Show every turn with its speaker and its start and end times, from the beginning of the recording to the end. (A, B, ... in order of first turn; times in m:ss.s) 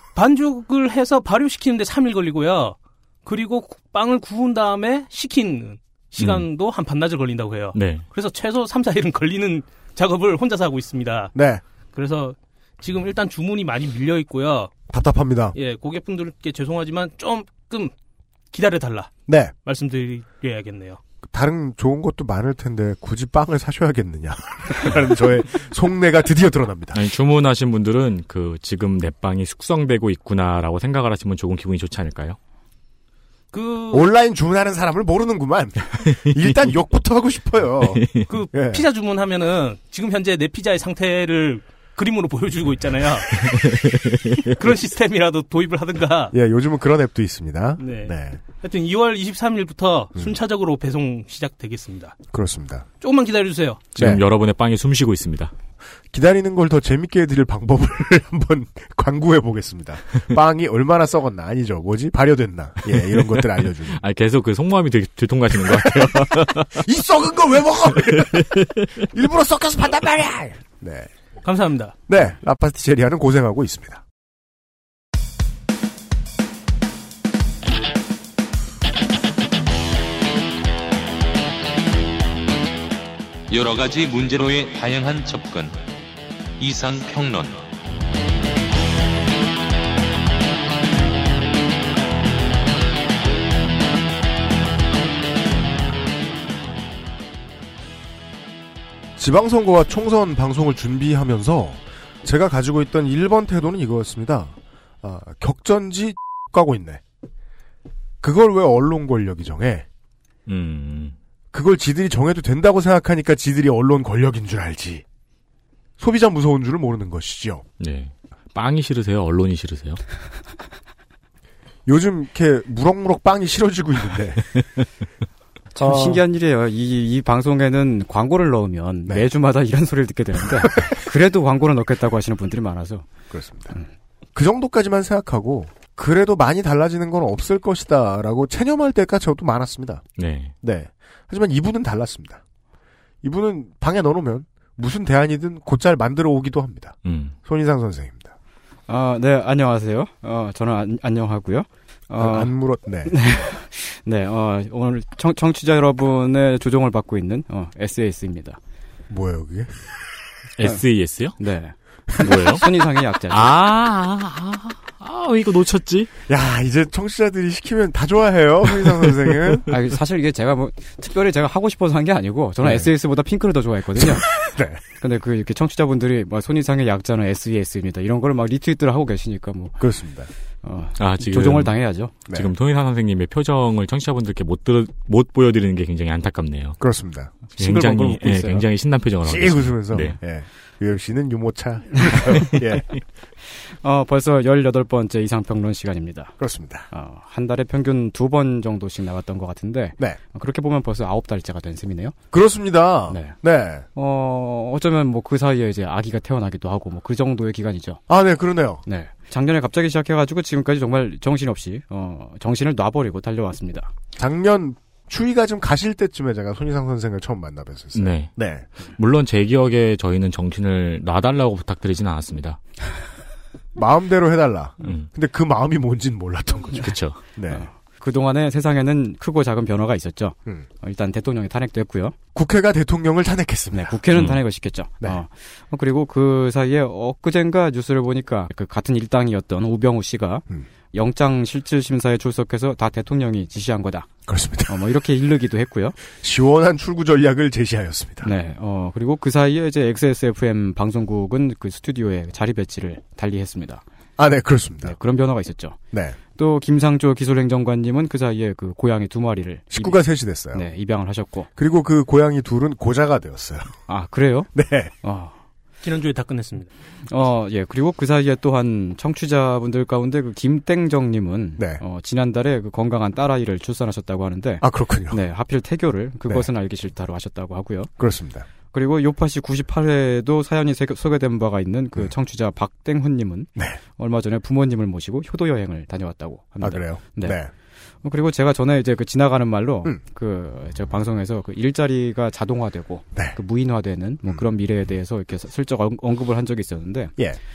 0:00.1-0:11.3 A
0:06.2-0:06.4 B
0:07.7-0:08.0 B
0:11.3-0:11.6 C
0:11.9-0:14.7 A
0:14.9-0:15.6 C
0:15.5-0:17.9 A
0:18.5-0:19.1 A
0:19.3-0:19.5 C
0:19.6-0:21.0 A
0:21.2-0:27.0 C
0:26.9-0:32.4 B
0:33.5-0:34.1 A
0:33.9-0:38.8 C
0:37.8-0:38.3 B
0:38.3-0:43.3 A
0:43.4-0:44.5 B
0:44.6-0:46.3 A
0:46.3-0:48.4 C
0:47.8-0:52.2 A
0:52.3-0:52.8 C
0:53.0-0:53.9 A
0:54.0-0:55.5 B
0:54.0-0:54.2 C
0:56.1-1:04.0 C
1:03.9-1:06.8 B
1:06.7-1:11.1 C
1:11.4-1:12.0 A
1:12.1-1:14.0 C
1:23.5-1:25.8 D
1:26.6-1:27.6 D
1:39.2-1:47.0 C
1:48.2-1:49.9 C
1:50.5-1:51.2 B
1:51.5-1:55.0 C
1:56.0-1:57.6 C
1:57.8-2:00.0 B
2:01.8-2:04.6 C
2:05.7-2:13.1 E
2:05.8-2:06.2 C
2:10.4-2:11.0 C
2:13.3-2:13.7 C
2:14.3-2:20.0 C
2:20.2-2:20.5 B
2:20.6-2:22.4 C
2:23.2-2:28.3 C
2:27.0-2:27.3 B
2:28.9-2:32.5 E
2:32.2-2:33.1 C
2:33.0-2:38.6 E
2:39.1-2:40.0 C
2:40.6-2:41.4 B
2:41.4-2:43.5 E
2:42.2-2:42.6 B
2:43.3-2:46.1 B
2:46.3-2:49.6 C
2:49.7-2:59.8 E
2:54.0-2:54.8 C
2:59.8-3:00.3 C
3:00.6-3:02.1 E
3:01.0-3:06.8 B
3:06.8-3:07.3 C
3:07.5-3:08.6 E
3:07.6-3:10.2 B
3:09.2-3:13.0 C
3:13.5-3:16.4 E
3:16.4-3:16.9 C
3:16.9-3:22.1 E
3:22.3-3:23.8 C
3:23.1-3:23.4 E
3:23.9-3:28.0 E
3:28.1-3:28.8 C
3:28.8-3:33.9 E
3:34.2-3:38.7 C
3:37.9-3:42.6 B
3:43.7-3:47.6 C
3:44.8-3:45.1 B
3:46.7-3:47.2 B
3:47.5-3:52.1 E
3:52.3-3:54.0 C
3:53.7-4:04.1 E
3:54.1-3:54.4 B
4:04.3-4:04.8 C
4:04.7-4:06.0 E
4:06.2-4:08.3 C
4:08.2-4:13.8 E
4:14.2-4:15.0 C
4:14.8-4:15.8 E
4:15.9-4:16.2 C
4:16.3-4:20.0 E
4:19.7-4:20.7 C
4:20.5-4:21.5 E
4:21.6-4:23.8 C
4:23.9-4:24.5 E
4:24.5-4:24.9 C
4:25.0-4:25.3 E
4:25.8-4:26.7 A
4:27.1-4:37.9 E
4:34.6-4:35.2 C
4:38.0-4:38.5 C
4:38.7-4:47.4 E
4:46.6-4:47.5 C
4:48.0-4:57.2 E